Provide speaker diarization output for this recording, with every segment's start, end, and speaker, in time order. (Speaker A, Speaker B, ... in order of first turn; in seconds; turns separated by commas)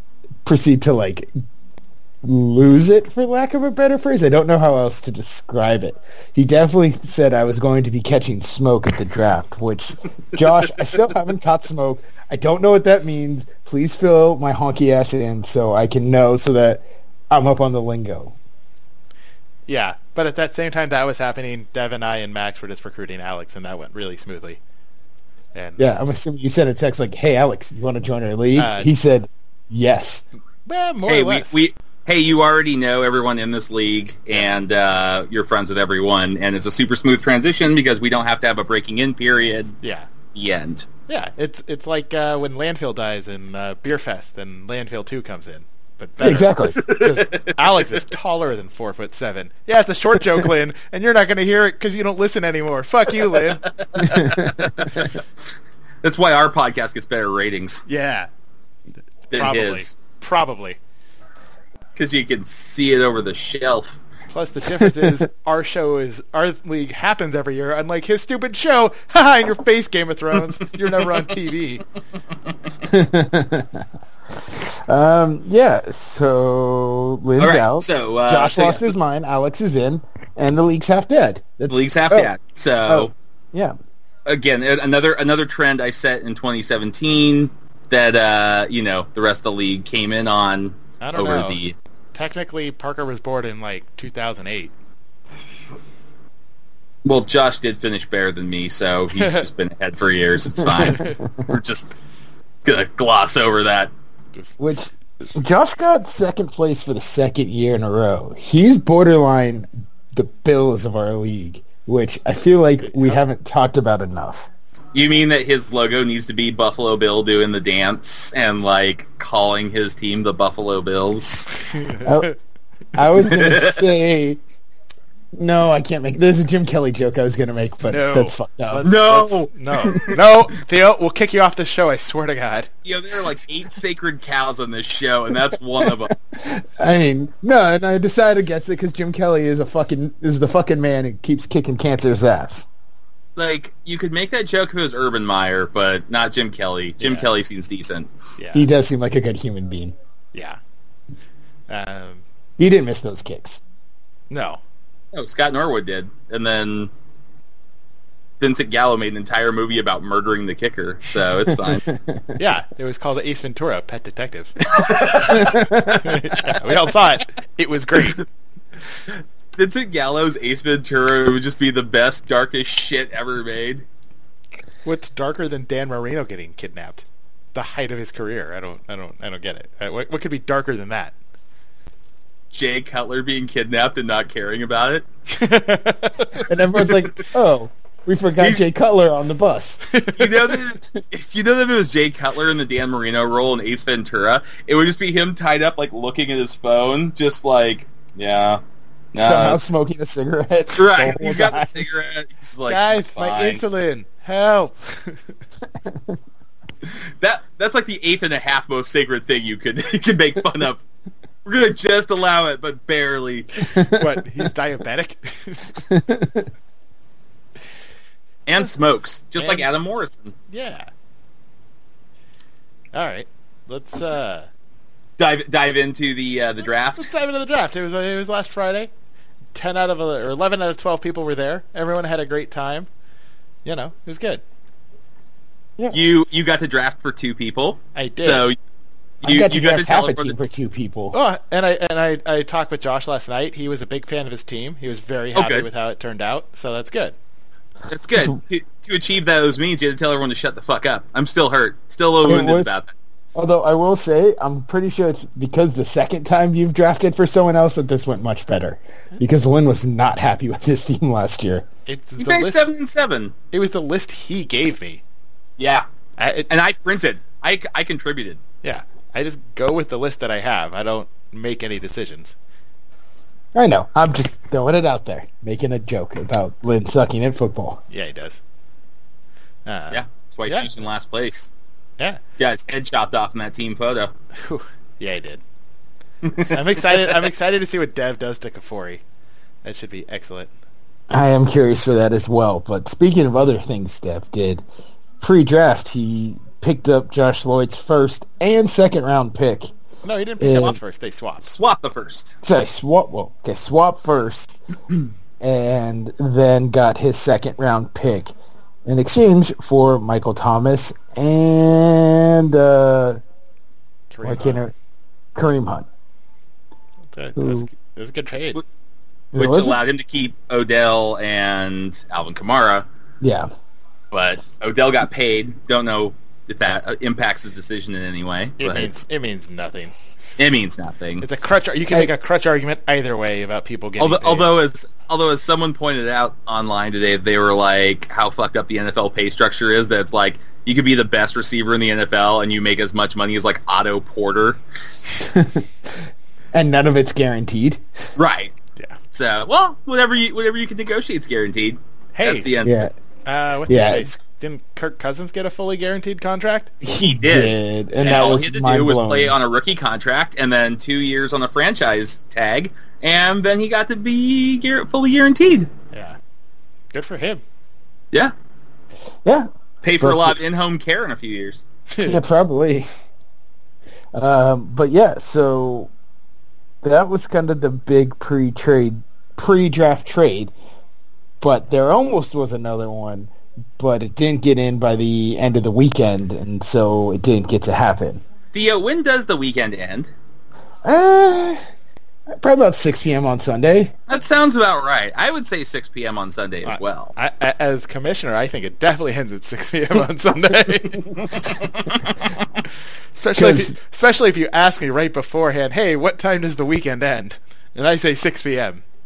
Speaker A: 0.4-1.3, Speaker A: 2.2-18.4, Speaker B: 19.7-24.6, Speaker B: 25.5-25.9, Speaker A: 25.8-30.2, Speaker B: 28.6-28.9, Speaker B: 30.6-31.6, Speaker C: 31.1-39.8, Speaker B: 39.8-40.1, Speaker C: 40.3-40.9, Speaker B: 41.1-53.6, Speaker A: 46.2-46.8, Speaker C: 46.8-47.5, Speaker C: 53.7-55.2, Speaker A: 54.0-54.9, Speaker C: 56.0-57.8, Speaker B: 57.9-58.3, Speaker B: 59.3-60.8, Speaker C: 59.3-59.9, Speaker C: 62.0-64.0, Speaker B: 64.3-71.8, Speaker A: 64.8-65.2, Speaker A: 72.8-82.3, Speaker C: 77.4-79.0, Speaker C: 81.7-83.1, Speaker A: 82.8-83.8, Speaker C: 84.2-91.7, Speaker B: 91.0-91.6, Speaker B: 92.1-94.7, Speaker C: 97.0-101.9, Speaker B: 99.2-99.4, Speaker A: 100.6-101.1, Speaker B: 100.9-101.2, Speaker C: 102.6-103.9, Speaker A: 104.6-114.5, Speaker B: 112.8-113.2, Speaker C: 114.9-121.5, Speaker B: 121.8-122.3, Speaker A: 122.0-122.3, Speaker A: 123.0-124.4, Speaker C: 123.2-123.8, Speaker A: 125.3-128.9, Speaker B: 127.9-132.7, Speaker C: 128.8-130.2, Speaker C: 132.8-136.1, Speaker A: 135.8-142.7, Speaker C: 143.3-148.1, Speaker B: 147.0-147.3, Speaker B: 148.4-148.7, Speaker A: 148.5-149.9, Speaker B: 150.3-150.6, Speaker B: 151.7-152.2, Speaker A: 152.6-153.6, Speaker B: 154.3-154.6, Speaker C: 155.1-156.9, Speaker C: 158.4-161.8, Speaker A: 161.5-162.3, Speaker B: 162.4-168.2, Speaker C: 164.7-165.6, Speaker A: 165.3-166.0, Speaker C: 169.6-173.8, Speaker B: 174.8-181.1, Speaker C: 182.5-185.0, Speaker B: 185.3-186.5, Speaker A: 186.4-189.8, Speaker B: 189.9-190.6, Speaker C: 190.2-198.6, Speaker C: 199.1-199.7, Speaker A: 199.1-201.9, Speaker C: 200.8-203.6, Speaker B: 202.7-205.3, Speaker A: 205.8-206.2, Speaker C: 206.9-210.8, Speaker C: 211.4-213.5, Speaker A: 213.7-214.5, Speaker B: 213.8-215.8, Speaker A: 215.8-216.5, Speaker C: 218.5-220.3, Speaker B: 219.4-219.7, Speaker B: 220.5-220.9, Speaker B: 222.9-224.5, Speaker C: 225.2-227.1, Speaker B: 227.0-228.9, Speaker B: 229.5-232.9, Speaker B: 233.6-234.4, Speaker C: 235.9-238.6, Speaker B: 237.9-238.5, Speaker C: 239.2-240.4, Speaker A: 239.2-241.2, Speaker B: 241.1-247.1, Speaker C: 245.3-245.7, Speaker C: 247.9-252.9, Speaker A: 252.2-252.7, Speaker A: 253.3-261.6, Speaker B: 261.9-262.6, Speaker C: 262.2-263.3, Speaker B: 263.5-265.0, Speaker C: 265.6-265.9, Speaker B: 266.2-266.6, Speaker C: 266.5-268.4, Speaker B: 268.6-272.3, Speaker A: 273.5-277.8, Speaker B: 277.9-278.4, Speaker B: 279.6-280.8, Speaker C: 279.9-281.5, Speaker C: 282.4-284.1, Speaker B: 284.3-285.4, Speaker C: 286.2-286.5, Speaker B: 286.4-289.0, Speaker B: 289.6-290.5, Speaker A: 291.1-294.6, Speaker A: 295.2-299.7, Speaker B: 300.0-301.6, Speaker A: 300.4-300.8, Speaker C: 301.4-302.4, Speaker A: 302.4-304.6, Speaker A: 305.4-308.3, Speaker A: 308.9-313.2, Speaker B: 314.1-314.6, Speaker A: 314.2-314.7, Speaker A: 315.3-315.9, Speaker B: 317.1-318.6, Speaker A: 317.4-317.7, Speaker A: 319.3-319.8, Speaker C: 319.3-322.9, Speaker A: 323.2-323.5, Speaker C: 324.1-328.9, Speaker B: 328.6-329.9, Speaker C: 330.4-331.2, Speaker B: 331.2-334.5, Speaker C: 334.0-344.6, Speaker A: 345.2-345.7, Speaker A: 346.5-347.8, Speaker C: 348.1-348.5, Speaker C: 349.1-352.8, Speaker B: 352.1-352.5, Speaker A: 352.6-352.9, Speaker B: 353.2-356.7, Speaker A: 353.7-354.1, Speaker A: 356.8-359.4, Speaker C: 357.0-365.7, Speaker B: 365.9-366.2, Speaker B: 366.9-367.4, Speaker C: 369.8-371.6, Speaker A: 370.0-370.4, Speaker B: 371.9-372.2, Speaker A: 372.1-372.9, Speaker A: 374.1-375.9, Speaker A: 376.8-380.5, Speaker A: 381.4-388.2, Speaker C: 388.5-390.1, Speaker A: 390.8-391.6, Speaker A: 392.3-393.9, Speaker C: 394.1-397.1, Speaker B: 396.6-401.5, Speaker C: 401.2-402.2, Speaker B: 403.1-408.8, Speaker A: 403.4-403.7